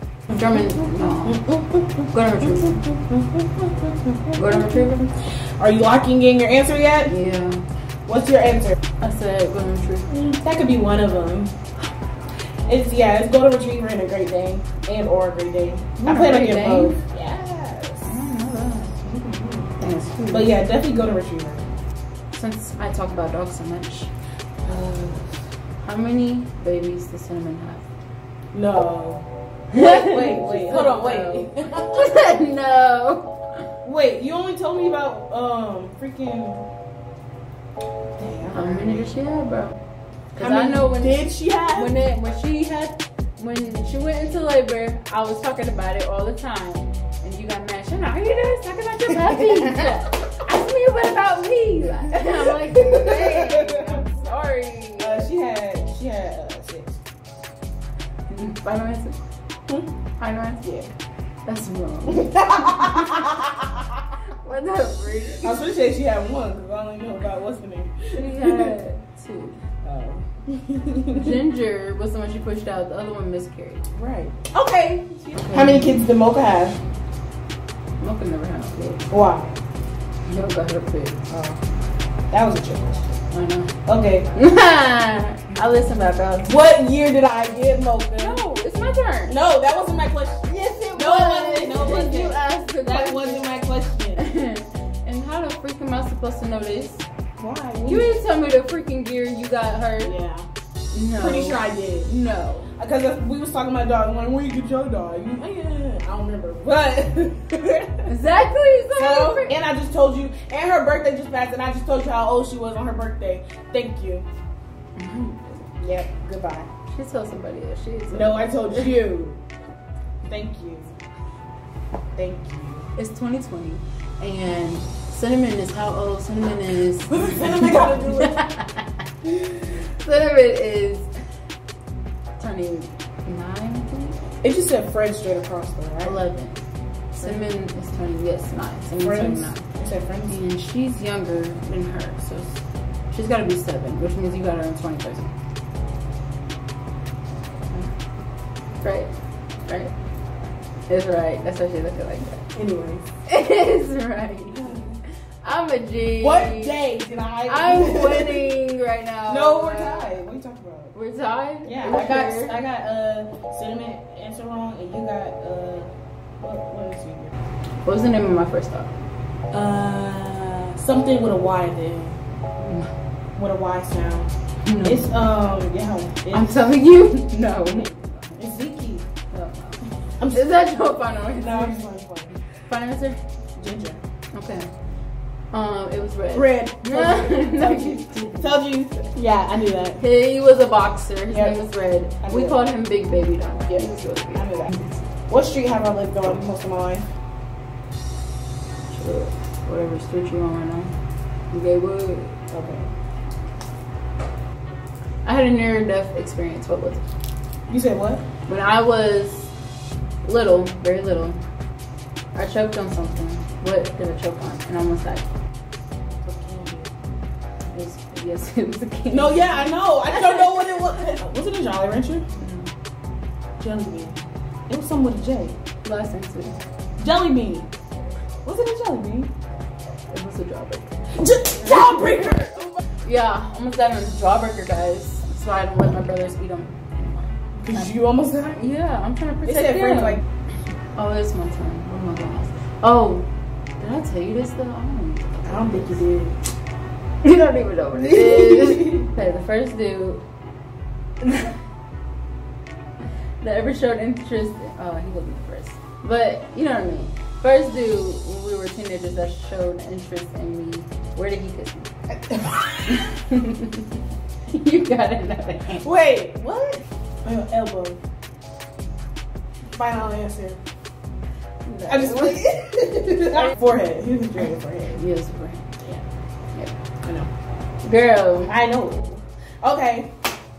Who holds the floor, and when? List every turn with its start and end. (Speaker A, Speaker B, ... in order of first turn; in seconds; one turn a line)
Speaker A: 0.3-2.8
Speaker B: 1.2-7.1
Speaker A: 4.4-5.1
Speaker A: 7.1-7.6
Speaker B: 8.1-8.8
Speaker A: 9.0-10.1
Speaker B: 10.1-11.5
Speaker B: 12.7-18.2
Speaker A: 16.0-17.0
Speaker A: 18.1-19.0
Speaker B: 19.0-19.8
Speaker A: 19.8-20.6
Speaker B: 20.3-21.6
Speaker A: 22.3-24.1
Speaker B: 24.7-25.3
Speaker A: 25.8-27.9
Speaker B: 28.5-32.4
Speaker A: 29.8-33.4
Speaker B: 33.8-36.7
Speaker B: 38.2-39.1
Speaker A: 38.5-39.8
Speaker A: 40.4-55.3
Speaker B: 40.4-42.0
Speaker B: 52.7-54.2
Speaker B: 55.0-57.0
Speaker A: 58.3-59.2
Speaker A: 60.2-60.6
Speaker B: 60.6-60.9
Speaker A: 61.5-63.5
Speaker B: 62.1-63.5
Speaker A: 64.4-65.6
Speaker B: 65.4-68.8
Speaker A: 68.2-69.6
Speaker B: 69.8-71.4
Speaker A: 71.1-73.9
Speaker B: 74.0-76.8
Speaker A: 75.4-75.9
Speaker A: 78.0-79.0
Speaker B: 79.1-79.6
Speaker A: 80.3-81.2
Speaker B: 81.3-81.6
Speaker B: 82.3-83.2
Speaker A: 83.3-83.8
Speaker B: 83.8-84.3
Speaker A: 84.3-86.5
Speaker B: 86.4-88.4
Speaker A: 88.2-89.4
Speaker B: 89.3-94.2
Speaker A: 90.5-93.5
Speaker A: 94.2-97.0
Speaker B: 97.4-98.1
Speaker A: 97.8-100.1
Speaker B: 100.0-100.5
Speaker A: 100.9-102.7
Speaker B: 101.2-102.1
Speaker B: 102.8-108.1
Speaker A: 108.1-109.6
Speaker B: 109.0-114.3
Speaker A: 115.0-115.7
Speaker B: 115.8-116.7
Speaker A: 116.9-119.0
Speaker B: 118.1-119.4
Speaker B: 120.2-120.9
Speaker B: 122.2-122.9
Speaker A: 123.0-131.1
Speaker B: 127.1-128.4
Speaker A: 132.4-134.2
Speaker B: 134.4-136.2
Speaker A: 136.0-136.6
Speaker A: 137.1-139.7
Speaker B: 139.0-140.3
Speaker A: 140.3-142.6
Speaker A: 143.1-145.3
Speaker A: 148.8-149.1
Speaker A: 149.7-149.9
Speaker A: 150.9-152.4
Speaker B: 152.6-153.0
Speaker A: 153.3-154.8
Speaker B: 154.5-155.0
Speaker A: 155.4-156.8
Speaker B: 156.2-158.5
Speaker A: 157.5-160.2
Speaker B: 159.3-160.9
Speaker A: 160.9-162.6
Speaker B: 161.6-167.3
Speaker A: 167.8-168.9
Speaker B: 169.5-172.2
Speaker A: 172.6-172.9
Speaker B: 173.4-174.3
Speaker A: 174.7-175.1
Speaker B: 174.8-176.5
Speaker A: 176.3-178.4
Speaker B: 178.4-179.1
Speaker A: 179.3-181.9
Speaker B: 180.2-180.7
Speaker B: 181.4-182.3
Speaker A: 182.5-183.2
Speaker B: 183.6-184.0
Speaker A: 184.3-184.7
Speaker A: 185.5-188.6
Speaker B: 186.3-190.0
Speaker A: 190.0-195.0
Speaker B: 191.3-191.6
Speaker B: 192.2-192.6
Speaker B: 193.7-194.8
Speaker B: 195.3-197.1
Speaker A: 198.9-200.9
Speaker A: 201.5-202.3
Speaker B: 202.5-202.9
Speaker A: 205.2-207.0
Speaker B: 207.7-208.2
Speaker A: 208.5-209.5
Speaker A: 210.2-211.4
Speaker A: 212.3-215.3
Speaker B: 216.2-216.9
Speaker A: 217.7-219.7
Speaker B: 219.1-222.2
Speaker A: 222.4-222.7
Speaker B: 223.6-224.2
Speaker B: 224.7-225.6
Speaker A: 225.8-226.6
Speaker B: 227.0-227.7
Speaker B: 228.4-229.3
Speaker A: 230.1-231.1
Speaker B: 231.1-232.8
Speaker A: 233.0-237.9
Speaker B: 237.6-238.6
Speaker A: 238.5-240.2
Speaker B: 239.4-240.2
Speaker A: 240.9-243.3
Speaker A: 243.8-246.0
Speaker B: 245.4-246.4
Speaker A: 247.2-250.2
Speaker B: 248.2-249.0
Speaker A: 251.2-251.5
Speaker A: 253.4-261.9
Speaker B: 262.3-263.0
Speaker A: 262.9-263.9
Speaker A: 264.5-265.8
Speaker B: 265.8-268.0
Speaker B: 269.7-270.6
Speaker A: 271.7-272.5
Speaker B: 271.9-275.0
Speaker A: 274.9-275.8
Speaker B: 277.0-277.3
Speaker A: 277.8-278.5
Speaker B: 278.4-280.1